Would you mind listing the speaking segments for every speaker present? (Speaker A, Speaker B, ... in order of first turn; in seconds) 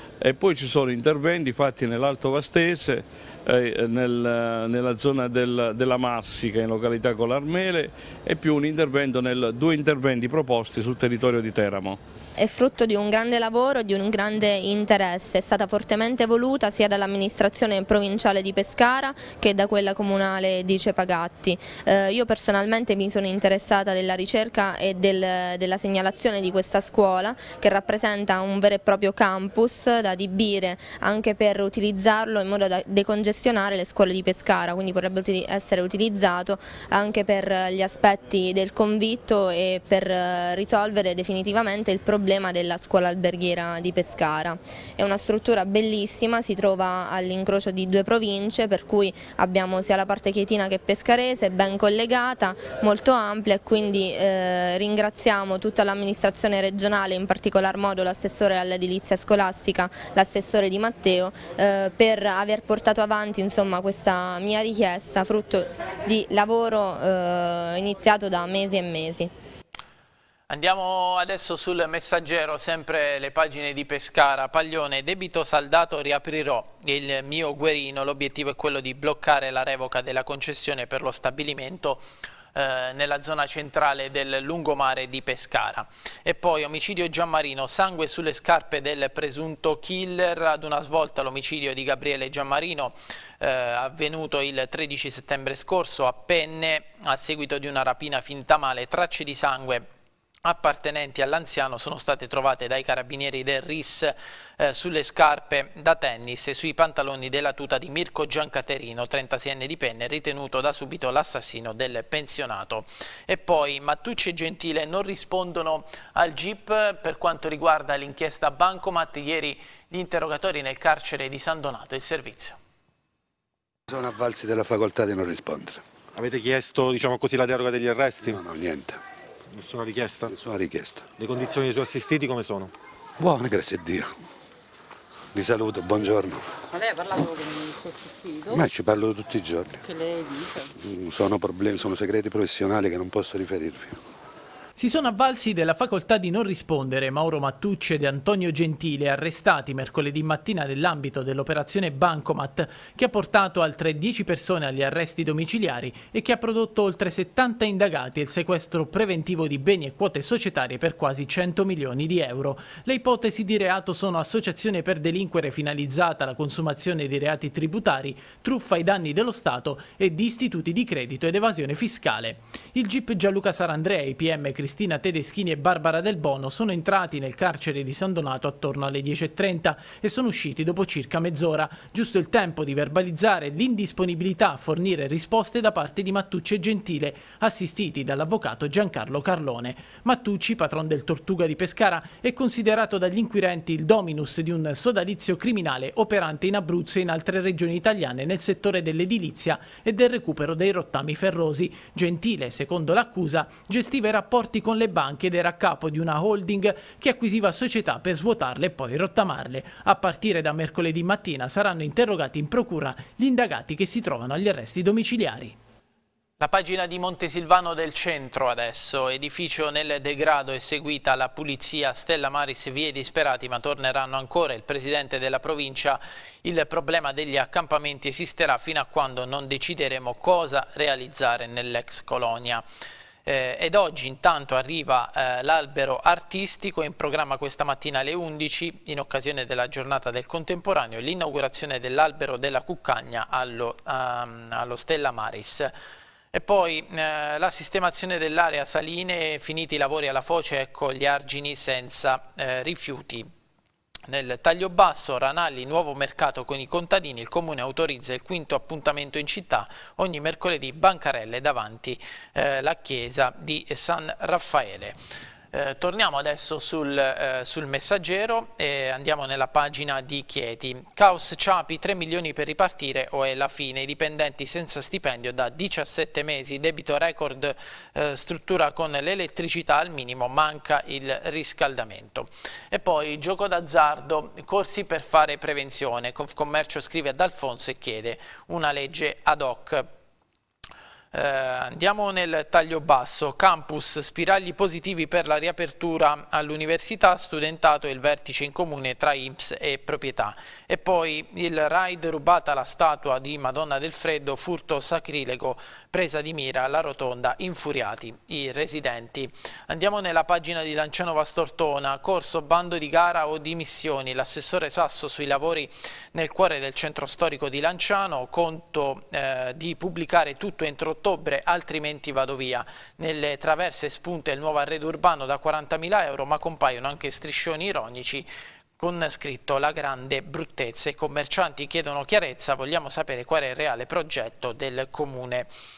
Speaker A: 0.2-12.0
Speaker B: 12.4-69.3
Speaker C: 70.5-99.9, 100.4-122.6, 144.8-215.6, 216.4-232.7, 233.2-245.7, 246.3-253.3, 254.1-265.0, 265.5-289.9, 291.1-328.3, 328.8-335.5
Speaker D: 123.9-125.8, 128.3-129.0, 130.3-131.1, 133.2-134.2, 135.3-136.6, 138.5-139.8, 140.8-144.0
Speaker E: 126.2-128.4, 129.5-130.3, 131.2-132.7
Speaker F: 136.7-138.6, 139.8-140.7